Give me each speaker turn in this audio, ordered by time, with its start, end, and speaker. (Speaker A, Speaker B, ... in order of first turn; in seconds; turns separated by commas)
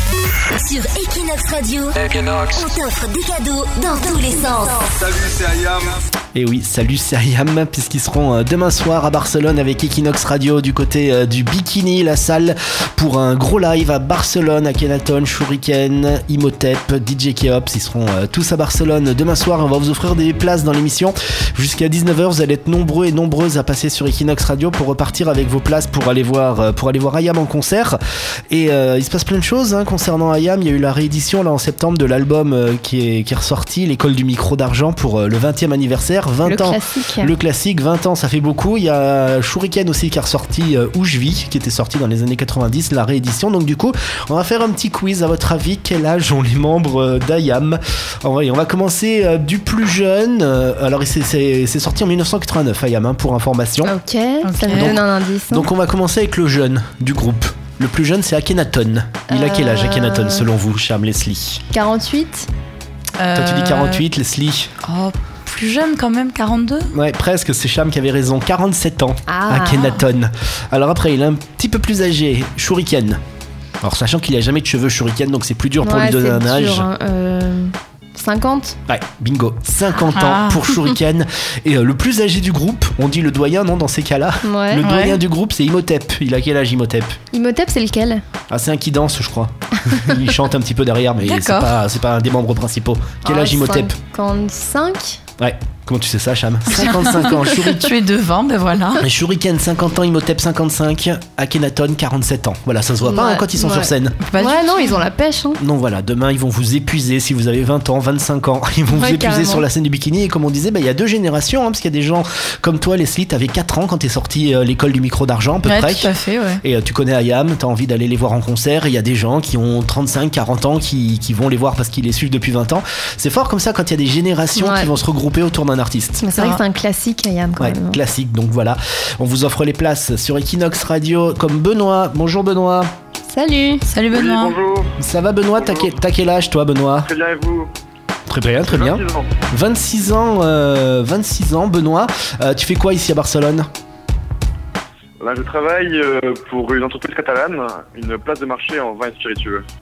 Speaker A: 0.5-5.2, Speaker B: 6.3-28.0, Speaker B: 28.5-53.9, Speaker C: 36.4-37.3, Speaker C: 53.8-55.7, Speaker D: 54.4-55.0, Speaker B: 54.7-61.6, Speaker C: 59.3-60.5, Speaker C: 61.7-62.5, Speaker D: 63.2-64.0, Speaker B: 63.3-64.7, Speaker D: 64.8-66.9, Speaker B: 66.9-73.2, Speaker C: 69.3-69.9, Speaker B: 73.8-76.9, Speaker C: 75.8-78.8, Speaker B: 78.9-87.2, Speaker D: 80.1-80.7, Speaker C: 84.4-84.8, Speaker D: 84.8-85.2, Speaker C: 87.3-88.2, Speaker B: 88.5-94.0, Speaker D: 91.2-91.7, Speaker C: 93.2-95.2, Speaker B: 95.4-97.9, Speaker D: 97.7-99.0, Speaker B: 99.0-104.2, Speaker C: 103.0-105.6, Speaker D: 104.2-104.7, Speaker B: 105.6-116.1, Speaker C: 108.9-109.7, Speaker D: 115.6-116.6, Speaker B: 116.6-126.2, Speaker C: 124.5-124.9, Speaker C: 126.2-128.0, Speaker D: 126.3-126.6, Speaker B: 127.6-132.9, Speaker C: 133.3-133.9, Speaker D: 133.8-134.6, Speaker E: 134.1-134.9, Speaker B: 135.0-137.1, Speaker E: 135.6-135.9, Speaker E: 137.0-137.7, Speaker B: 138.3-143.7, Speaker E: 138.6-139.3, Speaker E: 145.2-149.6